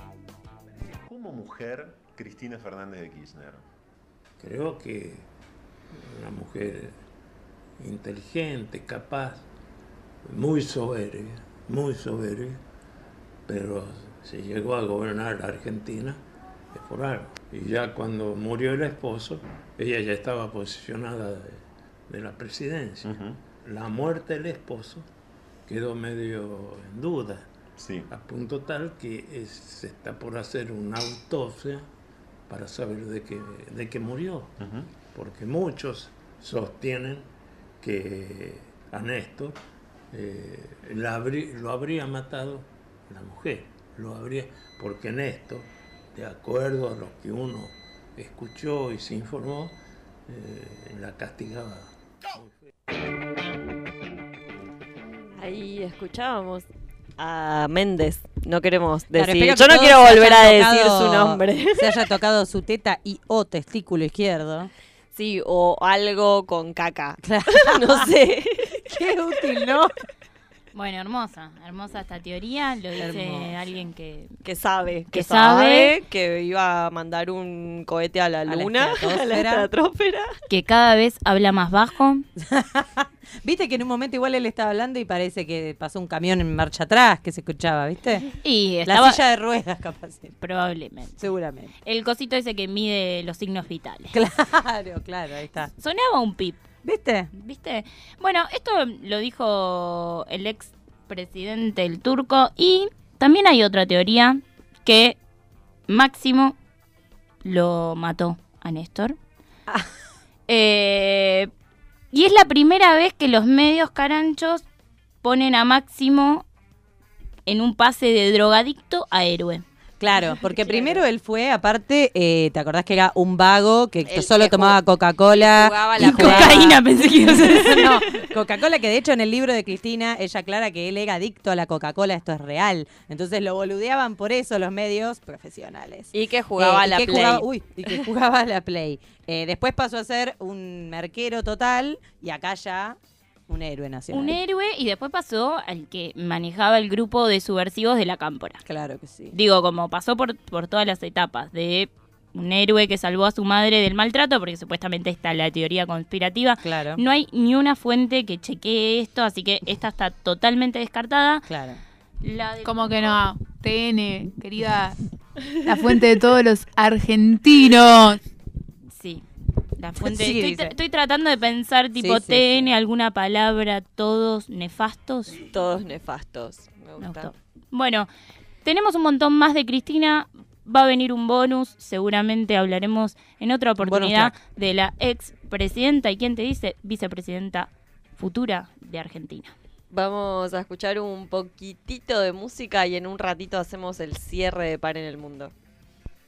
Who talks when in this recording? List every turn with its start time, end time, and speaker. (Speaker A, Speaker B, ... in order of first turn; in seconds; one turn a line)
Speaker A: 0.9-3.6
Speaker B: 4.4-5.3
Speaker B: 6.0-6.9
Speaker B: 7.8-9.5
Speaker B: 10.2-12.6
Speaker B: 13.5-16.2
Speaker B: 16.7-25.1
Speaker A: 23.0-23.4
Speaker B: 25.7-27.5
Speaker A: 27.8-28.1
Speaker B: 28.1-31.8
Speaker B: 32.5-34.5
Speaker A: 34.6-34.9
Speaker B: 35.1-37.3
Speaker B: 37.8-39.6
Speaker B: 40.1-49.8
Speaker B: 50.3-52.5
Speaker C: 55.4-56.7
Speaker C: 57.2-62.0
Speaker D: 59.1-64.7
Speaker C: 65.1-68.8
Speaker D: 67.2-68.1
Speaker D: 68.9-69.9
Speaker E: 70.7-74.4
Speaker D: 73.0-73.6
Speaker C: 74.4-80.3
Speaker E: 75.1-75.9
Speaker D: 78.5-79.7
Speaker E: 80.5-82.2
Speaker D: 82.4-88.3
Speaker E: 88.4-89.2
Speaker D: 88.8-90.3
Speaker E: 90.4-91.3
Speaker D: 91.2-91.7
Speaker E: 91.8-94.1
Speaker D: 94.1-95.7
Speaker E: 95.7-96.6
Speaker D: 96.8-97.3
Speaker E: 97.3-105.2
Speaker E: 105.9-106.5
Speaker E: 107.4-109.2
Speaker E: 110.5-111.5
Speaker E: 112.1-114.6
Speaker E: 115.2-116.5
Speaker E: 117.5-119.6
Speaker D: 120.0-143.0
Speaker C: 120.6-121.0
Speaker C: 124.0-126.7
Speaker E: 126.0-128.0
Speaker C: 136.1-137.9
Speaker D: 143.5-144.4
Speaker E: 144.1-148.6
Speaker D: 148.7-149.4
Speaker E: 149.3-161.5
Speaker D: 156.6-157.0
Speaker D: 161.5-161.8
Speaker E: 162.2-163.2
Speaker F: 162.6-164.9
Speaker F: 165.6-168.2
Speaker E: 168.9-169.2
Speaker E: 169.8-175.4
Speaker D: 170.0-170.8
Speaker D: 171.9-172.7
Speaker C: 175.5-177.3
Speaker E: 177.0-178.1
Speaker E: 178.6-189.5
Speaker D: 183.8-184.3
Speaker C: 189.9-195.5